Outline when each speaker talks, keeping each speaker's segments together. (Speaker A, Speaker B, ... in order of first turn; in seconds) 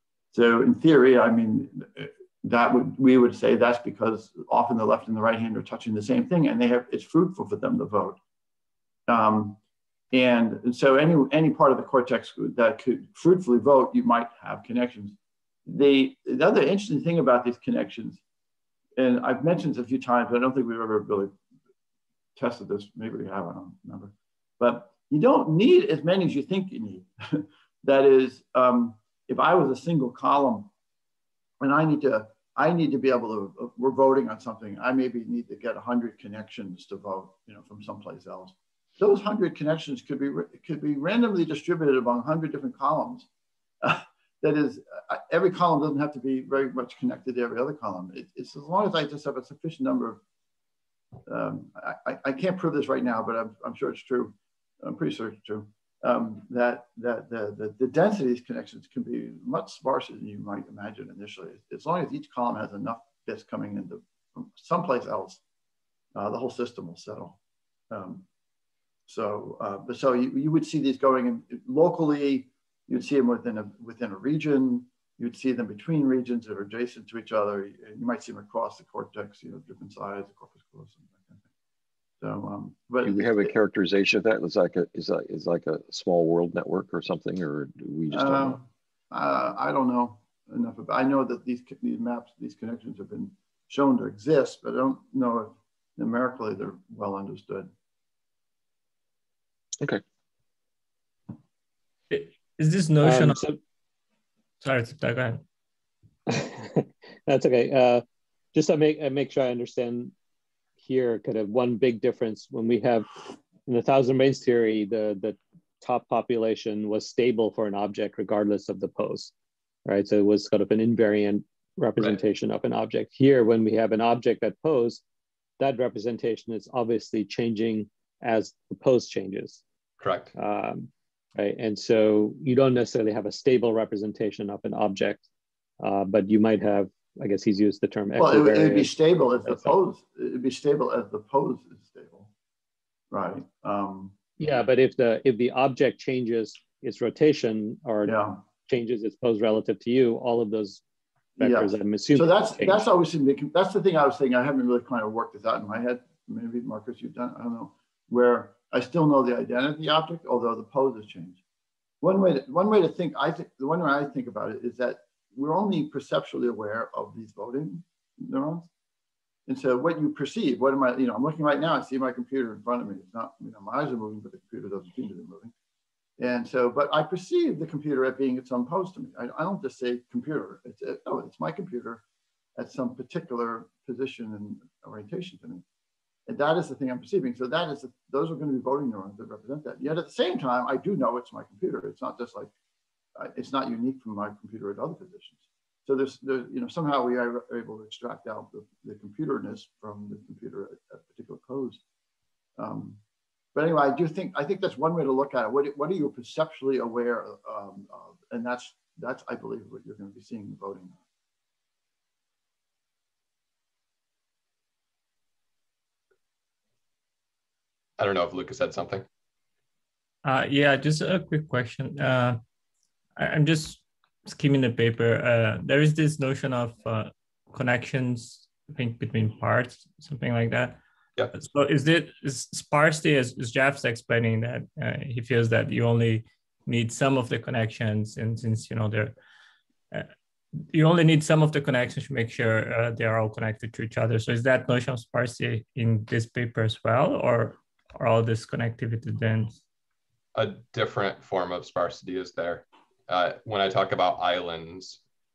Speaker A: 0.3-8.2, 9.1-9.6, 10.1-18.2, 19.0-21.3, 22.4-30.7, 31.6-43.3, 43.8-50.2, 51.3-65.4, 66.1-67.4, 67.9-68.2, 69.1-81.4, 82.2-83.5, 88.1-97.7, 138.2-142.3, 143.1-144.2, 148.0-148.4, 151.4-161.4, 162.0-168.7, 169.5-175.5, 176.2-182.0, 182.6-185.6, 186.3-192.5, 193.2-201.8, 202.6-203.0, 203.5-211.0
Speaker B: 83.0-88.6
Speaker C: 102.1-103.3, 104.6-105.4, 220.2-222.4, 223.2-230.8, 231.4-239.1, 240.7-249.5
Speaker D: 103.0-103.6, 106.3-110.1, 110.8-119.3, 119.9-125.0, 125.6-129.6, 130.4-135.2, 135.8-139.7, 144.4-150.8, 151.4-152.8
Speaker E: 130.0-130.3, 218.0-219.0, 250.3-255.0